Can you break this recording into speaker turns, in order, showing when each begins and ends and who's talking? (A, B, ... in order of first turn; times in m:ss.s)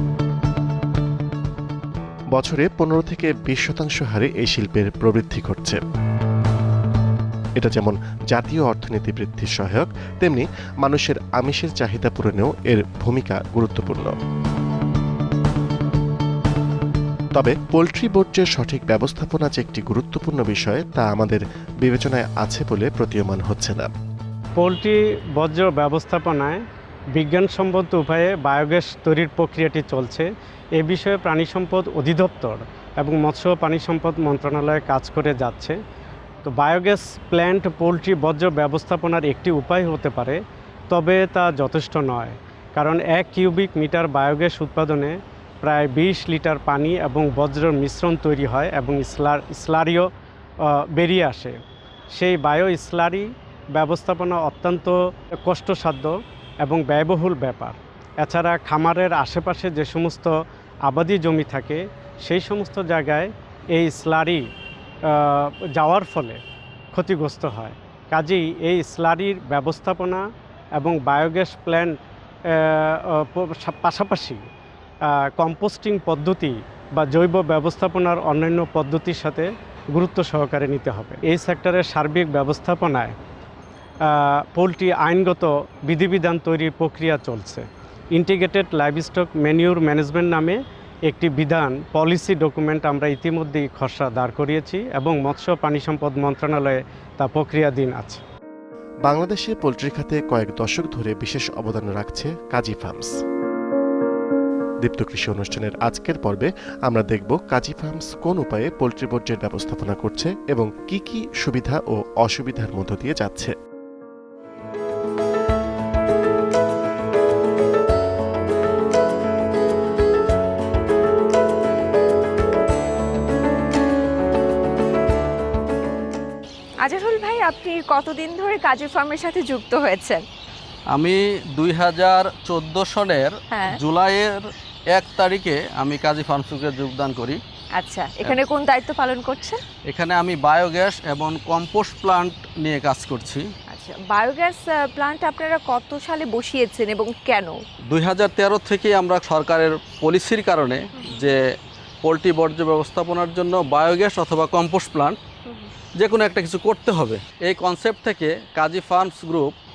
0:02.3-0:05.8 A
0:07.6-0:14.1 A
0:17.3-0:23.9 A
0:24.6-0:26.6 B
0:27.2-0:35.8 B
0:36.4-0:40.4 B
0:40.9-0:50.1 B
0:50.6-0:51.5 B
0:52.1-0:54.9 B
0:55.4-1:00.3 B
1:00.8-1:04.4 B
1:05.1-1:06.4 B
1:06.9-1:10.2 B
1:10.8-1:12.0 B
1:12.6-1:14.4 B
1:15.4-1:23.1 B
1:24.1-1:38.2 B
1:39.0-1:43.2 A
1:44.8-1:53.5 A
2:06.8-2:10.2 C
2:10.9-2:17.4 D
2:13.5-2:13.8 C
2:17.7-2:19.6 C
2:19.9-2:23.4 D
2:23.7-2:27.6 C
2:27.9-2:31.4 D
2:32.0-2:35.2 D
2:36.0-2:39.5 D